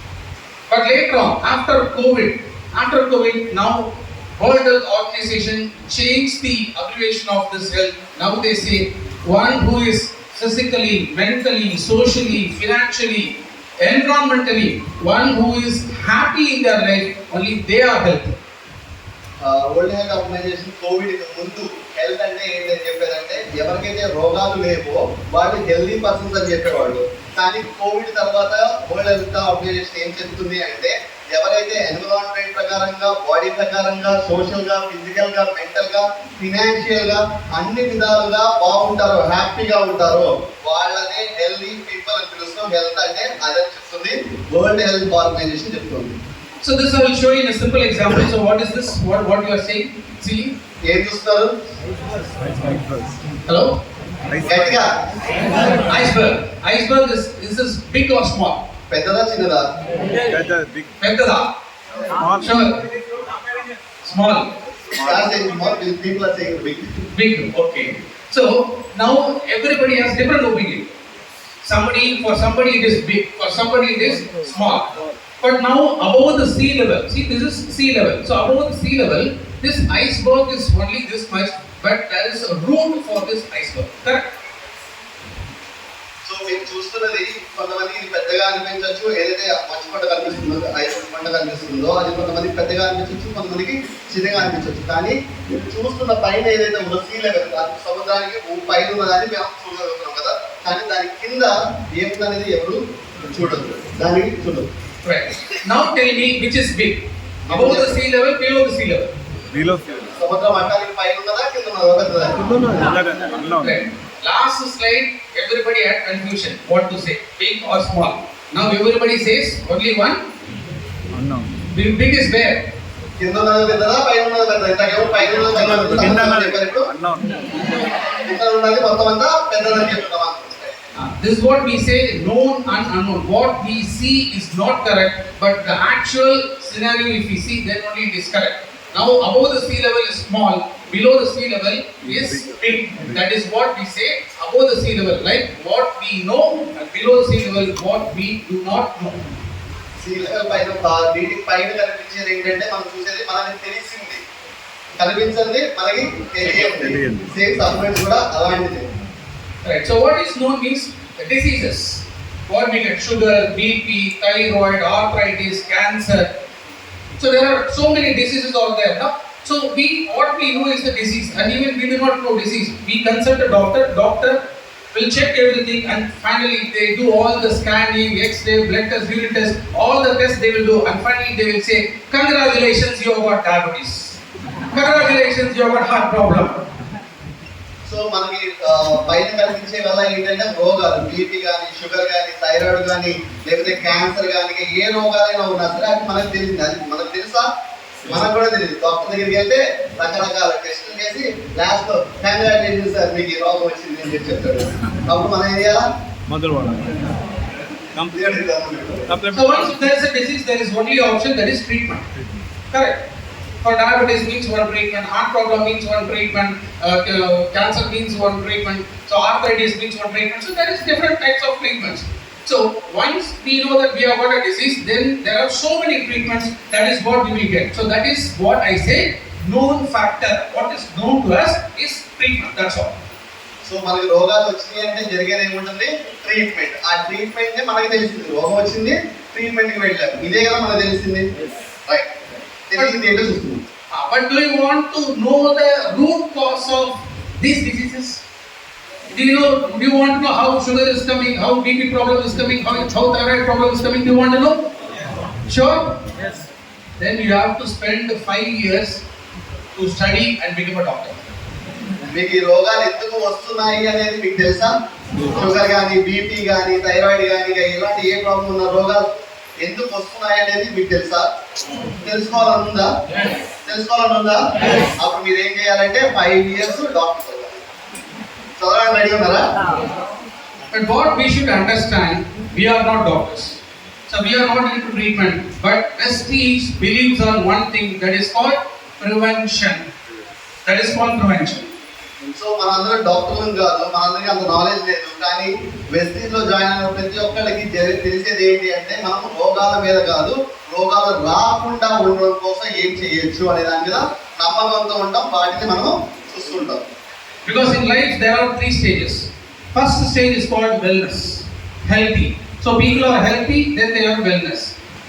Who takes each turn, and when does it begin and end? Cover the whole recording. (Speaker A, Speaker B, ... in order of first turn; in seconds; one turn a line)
Speaker A: 0.7-18.4
Speaker B: 19.4-46.2
Speaker A: 46.6-50.6
Speaker B: 50.9-51.5
Speaker C: 52.5-53.1
Speaker A: 53.5-53.8
Speaker C: 54.3-54.7
Speaker B: 54.5-55.0
Speaker A: 55.7-58.7
Speaker B: 58.9-59.6
Speaker C: 60.3-60.9
Speaker A: 61.0-61.5
Speaker C: 62.0-62.5
Speaker A: 62.4-62.8
Speaker A: 64.0-64.5
Speaker B: 64.9-66.8
Speaker C: 64.9-65.3
Speaker A: 67.1-71.0
Speaker A: 71.7-74.9
Speaker A: 75.4-84.3
Speaker B: 86.2-104.7
Speaker A: 105.0-109.1
Speaker B: 107.5-108.0
Speaker C: 109.5-110.2
Speaker B: 110.2-112.4
Speaker C: 112.4-113.8
Speaker A: 113.6-120.2
Speaker C: 121.1-121.5
Speaker A: 121.7-122.6
Speaker B: 123.2-126.9
Speaker C: 125.6-127.5
Speaker B: 128.2-130.8
Speaker A: 131.0-149.2
Speaker C: 142.1-143.2
Speaker B: 150.0-154.2
Speaker B: 155.0-158.8
Speaker C: 156.5-157.3
Speaker A: 159.6-166.3
Speaker A: 167.2-174.4
Speaker A: 174.9-184.2
Speaker A: 184.7-186.6
Speaker B: 187.9-197.5
Speaker B: 198.1-205.8
Speaker C: 206.3-207.1
Speaker B: 208.1-209.1
Speaker C: 209.1-209.8
Speaker A: 209.3-212.1
Speaker A: 212.7-213.0
Speaker A: 213.6-233.0
Speaker B: 233.7-241.3
Speaker B: 242.7-243.6
Speaker A: 242.8-243.0
Speaker A: 243.9-248.2
Speaker A: 249.1-254.6
Speaker A: 255.5-256.0
Speaker A: 257.0-259.0
Speaker A: 259.8-261.2
Speaker B: 262.1-264.7
Speaker B: 265.3-269.1
Speaker B: 269.6-271.3
Speaker B: 272.1-272.9
Speaker B: 273.7-277.6
Speaker B: 278.6-279.4
Speaker A: 280.7-289.9
Speaker A: 290.6-291.7
Speaker B: 292.3-306.8
Speaker A: 307.4-314.8